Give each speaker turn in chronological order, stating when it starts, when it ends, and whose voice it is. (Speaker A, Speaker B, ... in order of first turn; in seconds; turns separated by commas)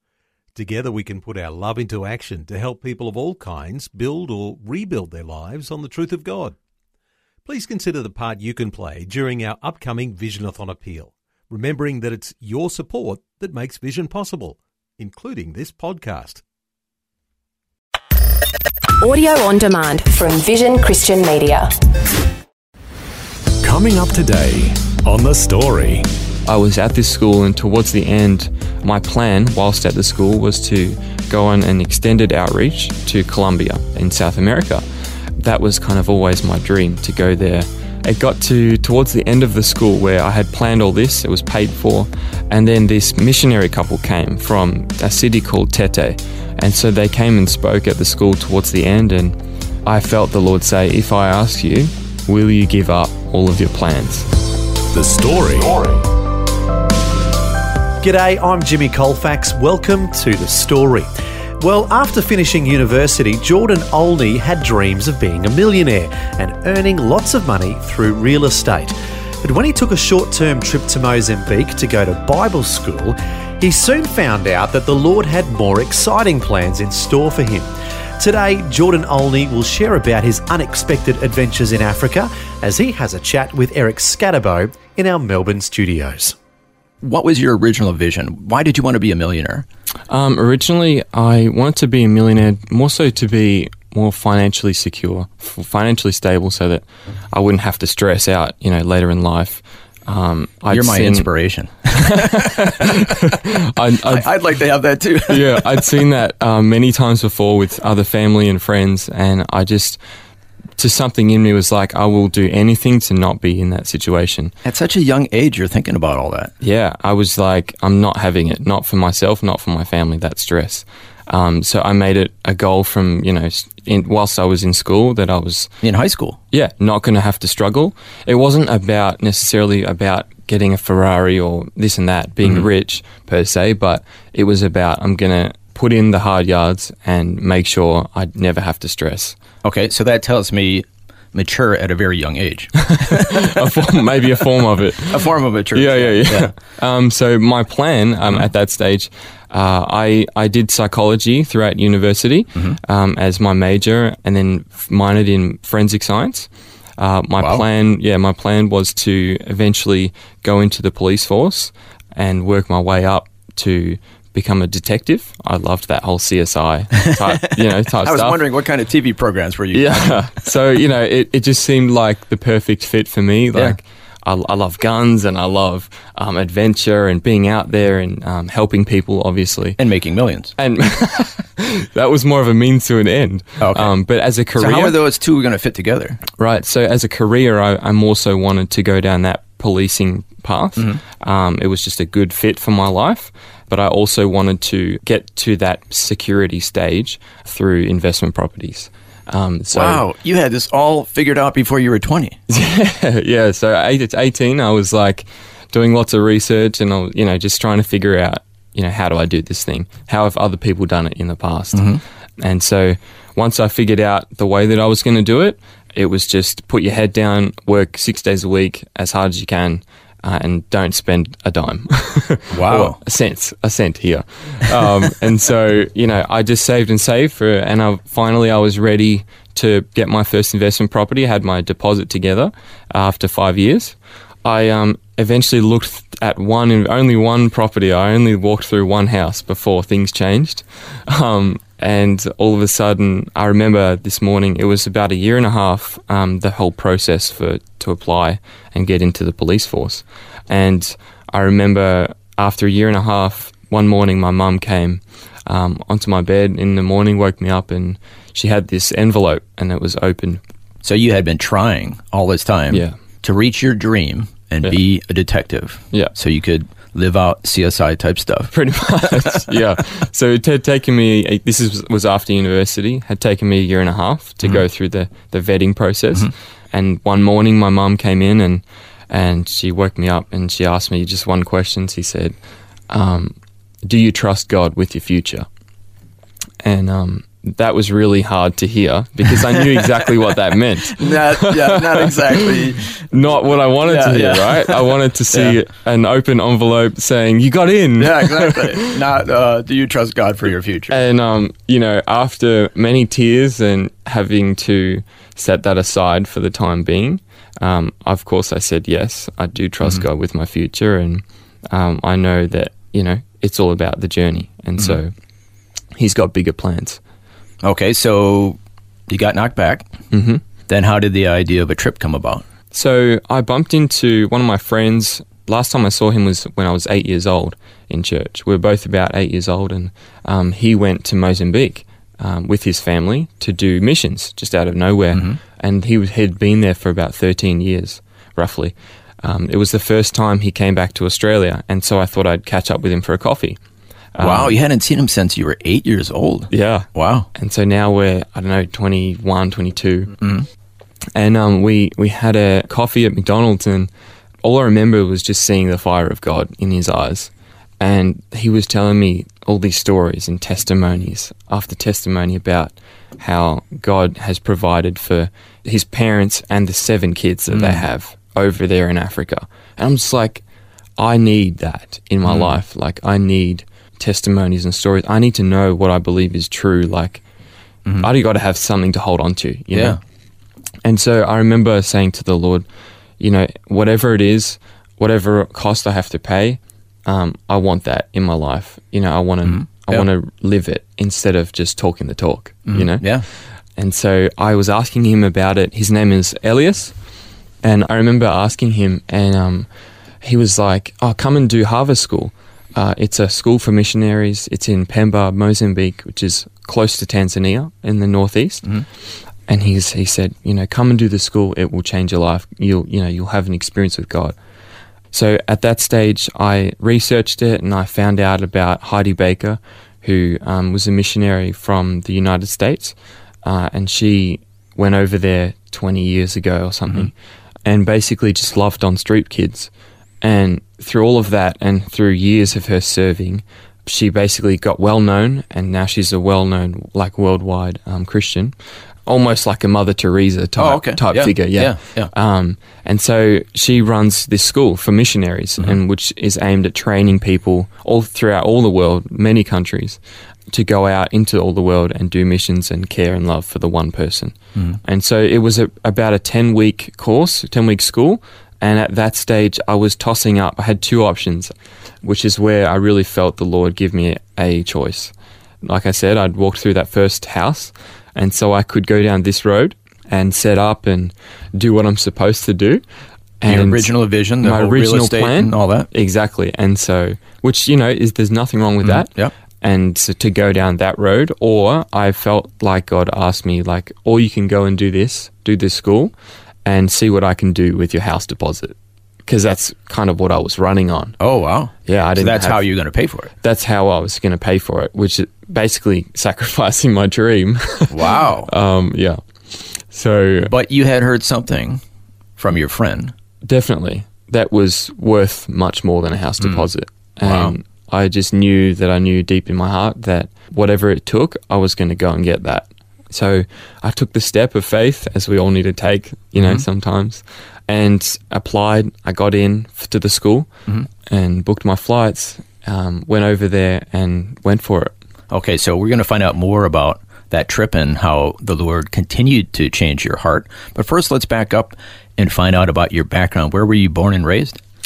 Speaker A: 0.6-6.6, Speaker A: 7.5-16.4, Speaker B: 19.0-21.7, Speaker C: 23.6-26.1, Speaker D: 26.5-34.8, Speaker D: 35.4-54.3, Speaker C: 54.9-56.0, Speaker E: 58.0-61.1, Speaker E: 61.6-77.7, Speaker E: 78.2-86.4, Speaker F: 87.0-89.7, Speaker D: 90.1-101.3, Speaker F: 100.7-103.2, Speaker D: 102.0-104.3, Speaker F: 104.0-106.0, Speaker D: 105.3-110.0, Speaker D: 110.8-114.5, Speaker F: 114.6-116.5, Speaker D: 116.6-125.7, Speaker F: 125.8-126.4, Speaker D: 126.5-139.4, Speaker F: 139.6-143.5, Speaker D: 142.8-168.4, Speaker F: 145.0-146.6, Speaker F: 157.4-157.7, Speaker F: 168.0-170.2, Speaker D: 169.7-179.8, Speaker F: 179.8-180.5, Speaker D: 180.6-185.0, Speaker F: 183.6-183.9, Speaker F: 184.6-186.2, Speaker D: 186.4-200.1, Speaker F: 199.7-202.4, Speaker D: 202.5-260.4, Speaker F: 211.7-212.0, Speaker F: 222.5-223.0, Speaker F: 260.8-268.5, Speaker D: 262.7-263.0, Speaker D: 268.5-282.4, Speaker D: 282.9-285.5, Speaker D: 286.6-292.5, Speaker F: 289.6-290.1, Speaker F: 290.9-295.6, Speaker D: 293.1-298.8, Speaker F: 298.0-300.9, Speaker D: 300.9-315.1, Speaker D: 316.0-317.0, Speaker F: 317.6-319.9, Speaker D: 320.1-320.4, Speaker F: 320.7-322.4, Speaker D: 322.7-343.6, Speaker D: 344.1-344.6, Speaker F: 344.2-347.3, Speaker D: 346.5-350.1, Speaker D: 351.1-353.9, Speaker D: 354.4-370.4, Speaker F: 367.5-367.8, Speaker D: 371.0-377.2, Speaker F: 372.2-372.6, Speaker D: 378.0-380.0, Speaker F: 379.7-380.0, Speaker D: 380.9-382.7, Speaker D: 383.2-393.1, Speaker F: 389.4-390.1, Speaker F: 392.7-393.3, Speaker D: 393.8-396.9, Speaker D: 397.6-399.7, Speaker D: 400.2-408.7, Speaker D: 409.5-414.4, Speaker D: 415.1-427.1, Speaker D: 427.6-429.7, Speaker D: 430.2-438.6, Speaker D: 439.1-450.0, Speaker F: 440.6-442.1, Speaker D: 450.5-461.5, Speaker D: 462.0-472.8, Speaker D: 473.4-473.9, Speaker F: 473.5-475.9, Speaker D: 474.4-486.1, Speaker F: 478.8-479.3, Speaker D: 486.6-488.8, Speaker D: 489.3-491.2, Speaker F: 491.2-493.3, Speaker D: 491.9-492.7, Speaker D: 493.4-500.5, Speaker F: 497.9-498.5, Speaker F: 500.5-501.8, Speaker F: 502.4-503.1, Speaker D: 503.5-520.5, Speaker F: 506.4-506.7, Speaker F: 507.2-507.5, Speaker D: 521.1-524.9, Speaker F: 525.3-534.6